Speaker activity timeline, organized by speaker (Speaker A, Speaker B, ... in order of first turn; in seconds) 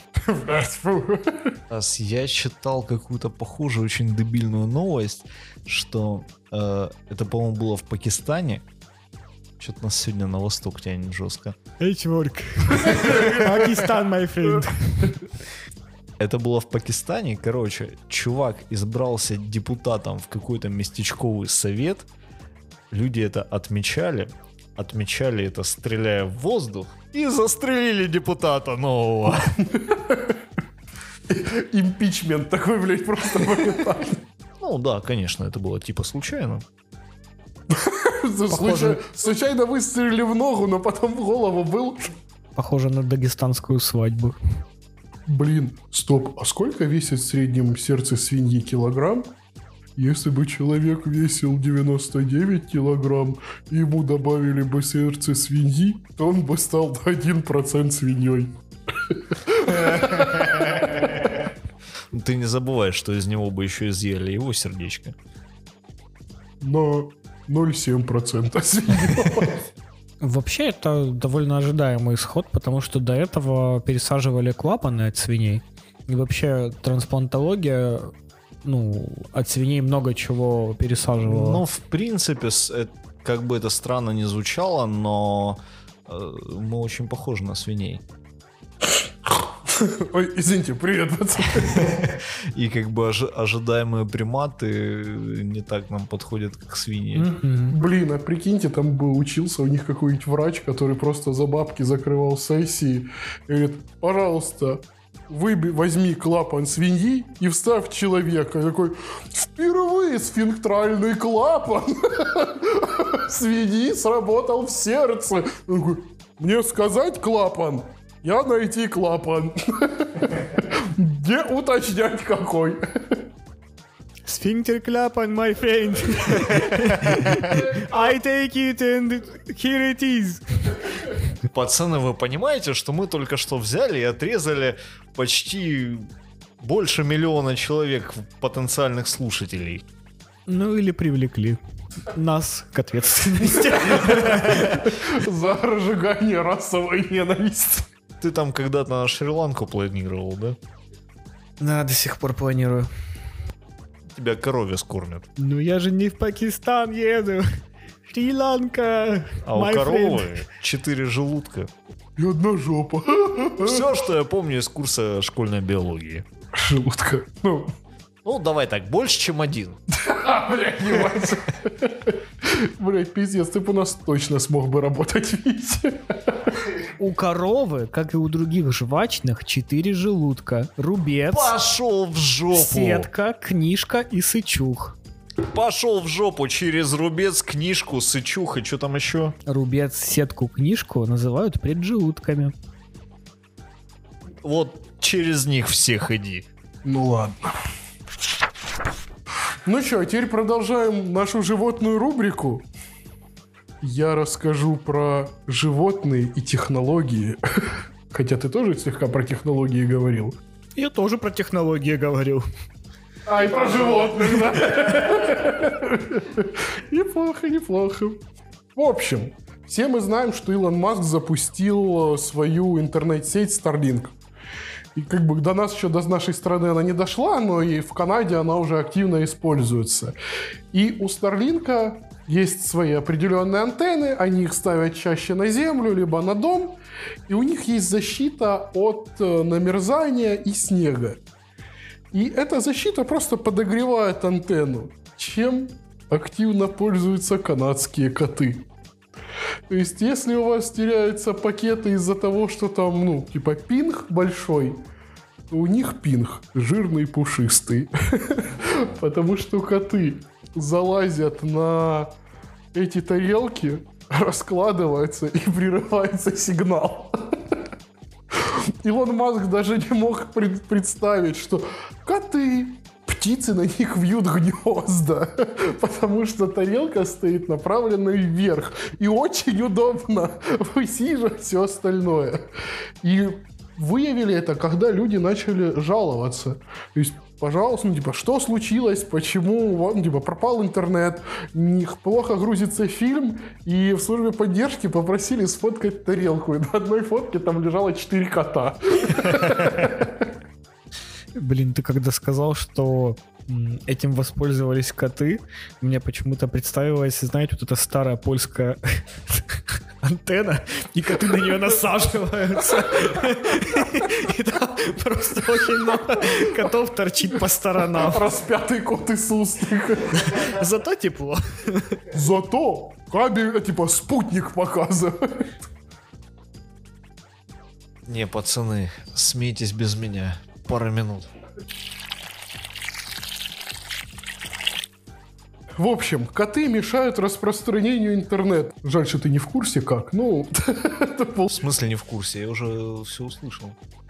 Speaker A: 0.2-1.6, 29.7-30.3, 31.3-34.2, 37.7-42.1, 45.3-49.3, 50.0-58.5, 59.0-61.3, 66.6-69.7, 89.3-91.9, 97.7-123.2, 144.3-147.9, 162.2-163.9, 166.5-167.7, 169.9-176.6, 196.8-197.5, 199.7-202.7, 203.8-210.4, 213.3-218.2, 218.8-224.2, 224.9-230.2, 230.7-241.2, 242.1-248.7, 249.7-254.8, 255.5-262.1, 262.7-267.6, 268.3-282.4, 283.0-300.2, 317.9-320.2, 322.1-325.5, 335.8-341.6
Speaker B: 1.7-8.6, 9.6-11.6, 13.0-13.3, 16.2-22.1, 22.9-29.5, 34.6-36.6, 59.7-61.3, 62.1-65.2, 81.2-88.0, 91.6-97.3, 126.7-127.7, 131.4-139.8, 148.2-150.6, 154.1-155.3, 159.4-161.7, 163.6-166.2, 168.2-169.8, 181.3-183.1, 185.4-189.3, 194.4-196.4, 328.1-331.3, 341.5-343.8
Speaker C: 11.8-15.2, 38.5-39.0, 42.5-44.4, 70.2-78.1, 78.6-81.6, 97.1-97.8, 124.2-130.9, 140.5-144.8, 151.6-152.9, 155.4-157.5, 158.1-160.4, 177.0-181.5, 182.5-185.0, 189.5-192.5, 210.8-212.4, 301.3-318.3, 320.1-322.0